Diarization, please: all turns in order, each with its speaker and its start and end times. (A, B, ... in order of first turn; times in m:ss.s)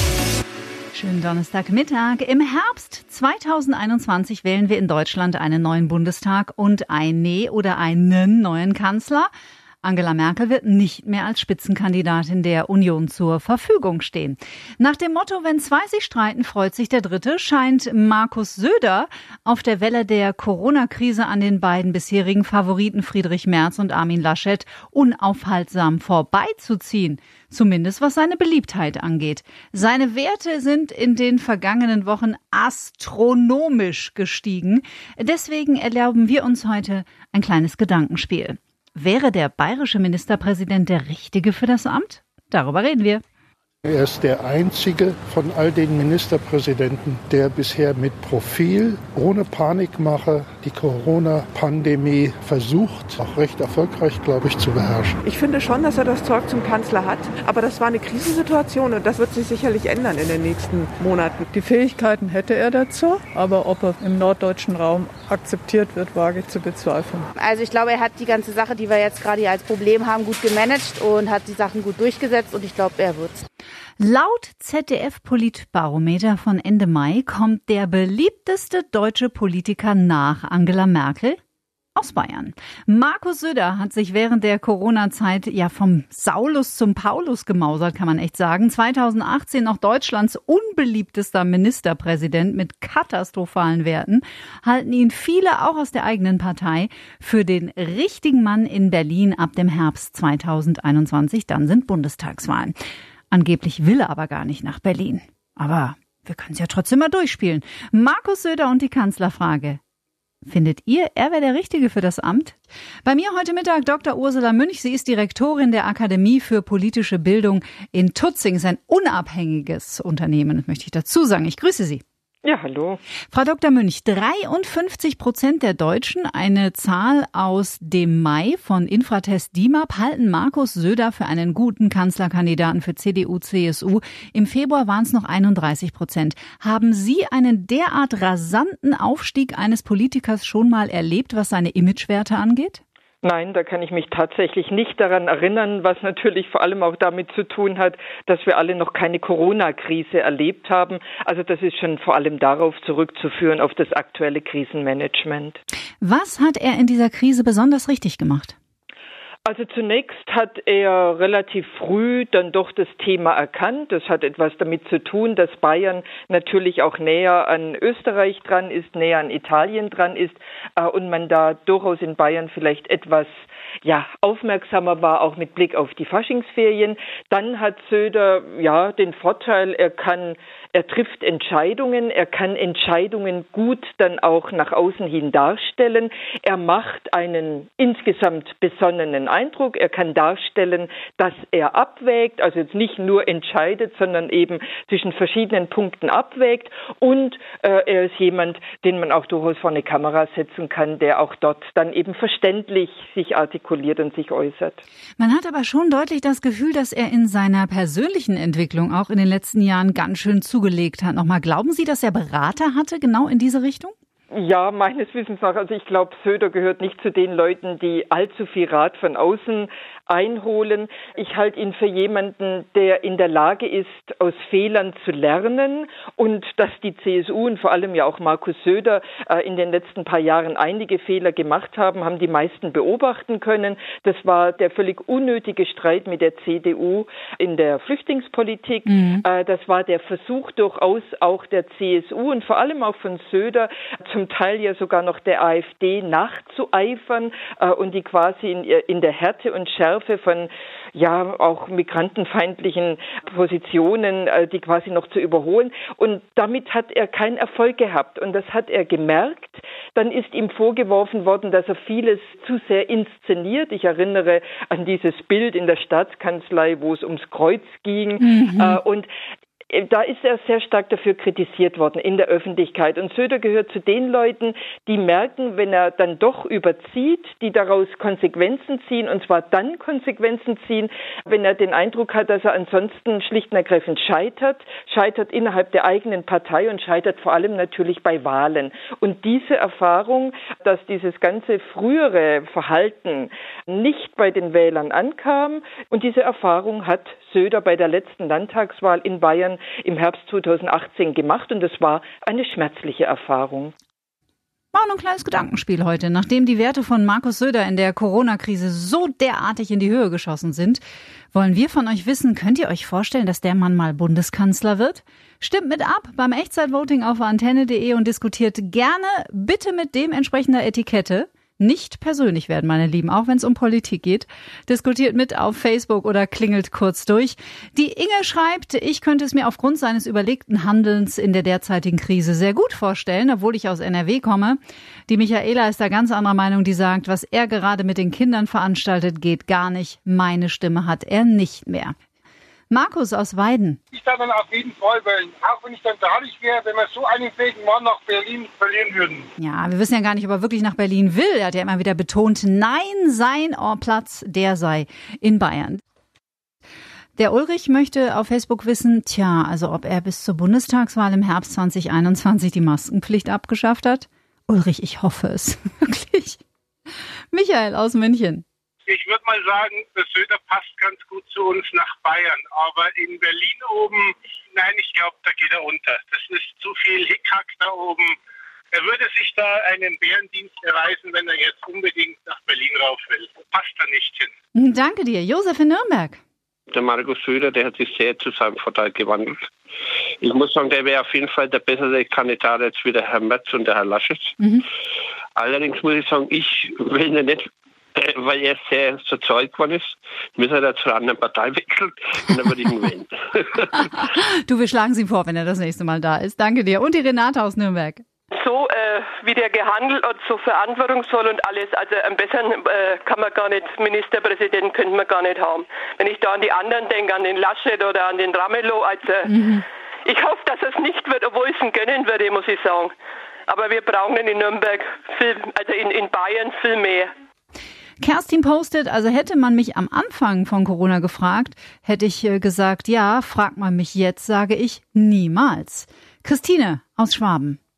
0:00.9-0:09.3 A
0:09.8-0:43.2 A
0:43.8-0:55.2 B
0:55.2-1:01.4 C
1:01.5-1:07.3 D
1:07.4-1:13.4 E
1:14.0-1:21.4 A
1:21.9-1:42.7 A
1:43.3-1:49.8 A
1:50.4-2:02.0 A
2:02.4-2:03.0 F
2:03.3-2:22.8 A
2:23.2-2:35.6 F
2:36.0-2:38.5 A
2:39.4-2:53.3 F
2:53.8-3:24.8 F
3:25.2-3:33.9 A
3:34.3-4:29.1 F
3:58.9-3:59.2 A
4:28.2-4:28.8 A
4:29.7-5:03.7 F
5:04.7-5:10.8 A
5:11.3-5:41.9 A
5:42.7-5:43.8 A
5:43.9-5:49.3 G
5:49.4-5:55.8 A
5:57.2-6:06.4 A
6:07.3-6:08.4 A
6:08.9-6:18.2 G
6:18.7-6:24.3 G
6:24.5-6:26.2 A
6:26.7-6:29.5 H
6:30.2-6:34.3 H
6:35.4-6:43.7 H
6:44.0-6:48.0 A
6:48.3-6:59.5 I
6:59.3-6:59.6 A
7:00.0-7:02.9 I
7:03.5-7:07.1 I
7:08.0-7:17.6 A